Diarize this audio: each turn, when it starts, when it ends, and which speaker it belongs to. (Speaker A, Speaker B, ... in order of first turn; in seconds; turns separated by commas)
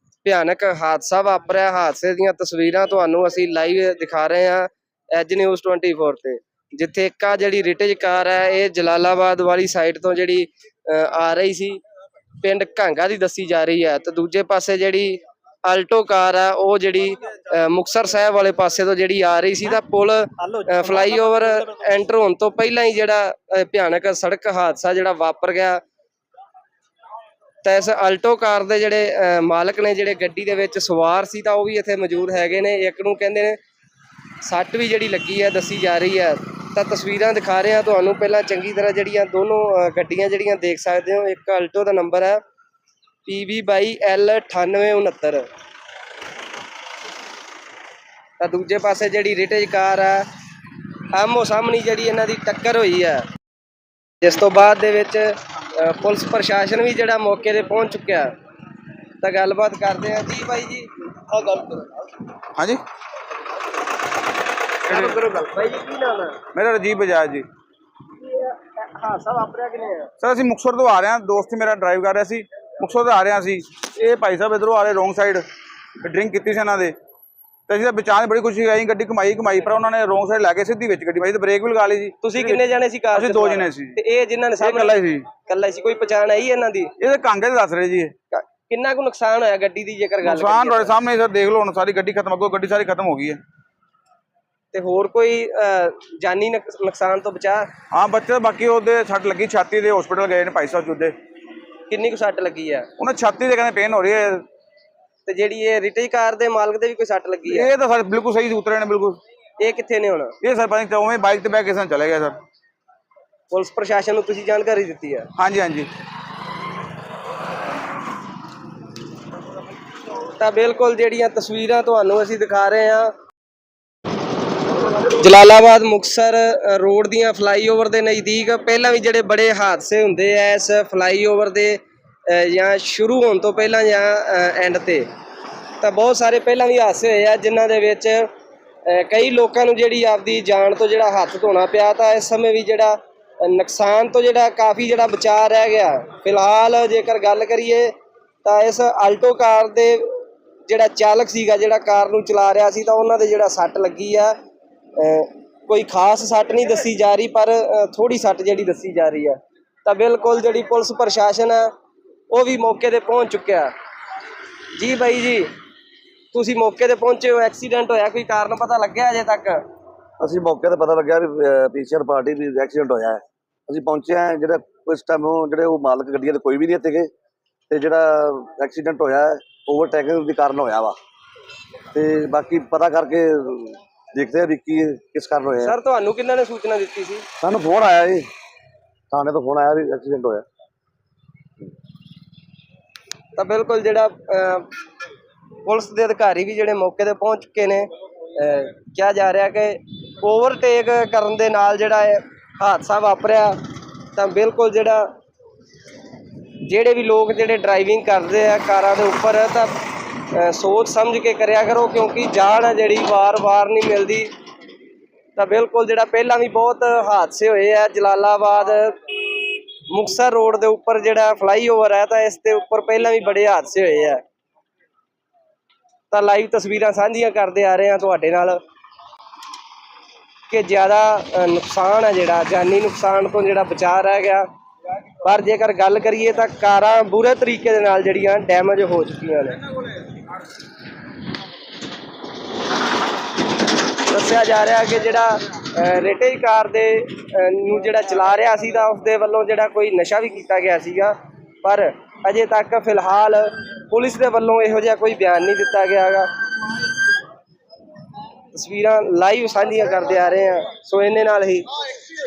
Speaker A: 0.2-11.8, Speaker A: 12.4-25.8, Speaker A: 27.6-33.6, Speaker A: 34.4-42.4, Speaker A: 43.3-45.5, Speaker A: 48.4-50.2, Speaker A: 51.1-53.2, Speaker A: 54.2-58.3, Speaker A: 59.2-62.1, Speaker B: 62.6-62.8, Speaker A: 64.8-66.4, Speaker B: 64.9-65.2, Speaker B: 66.5-67.5, Speaker A: 68.2-70.1, Speaker B: 70.2-75.5, Speaker B: 76.0-77.0, Speaker B: 77.7-82.6, Speaker A: 82.2-86.9, Speaker B: 83.1-84.0, Speaker B: 84.6-85.3, Speaker B: 87.0-88.1, Speaker A: 88.3-91.0, Speaker B: 90.2-93.4, Speaker A: 94.7-97.7, Speaker B: 97.9-101.2, Speaker A: 101.9-102.9, Speaker B: 103.0-104.4, Speaker A: 105.3-107.7, Speaker B: 107.5-109.2, Speaker A: 109.6-110.4, Speaker B: 110.4-112.4, Speaker A: 113.5-115.3, Speaker B: 115.4-115.9, Speaker A: 120.3-123.1, Speaker A: 125.0-135.1, Speaker A: 135.8-138.3, Speaker A: 138.9-154.3, Speaker A: 155.0-161.7, Speaker A: 162.3-163.7, Speaker A: 164.8-165.5, Speaker A: 166.3-169.6, Speaker C: 170.2-177.1, Speaker C: 177.7-180.9, Speaker C: 181.9-185.8, Speaker A: 185.6-187.2, Speaker C: 187.4-188.3, Speaker C: 189.1-190.4, Speaker A: 193.4-194.7, Speaker A: 195.6-203.6, Speaker A: 204.1-205.1, Speaker A: 206.7-209.7, Speaker A: 210.3-214.3, Speaker A: 215.4-224.2, Speaker A: 226.1-228.6, Speaker A: 230.5-234.5, Speaker A: 235.2-239.6, Speaker A: 244.1-256.3, Speaker A: 258.5-261.7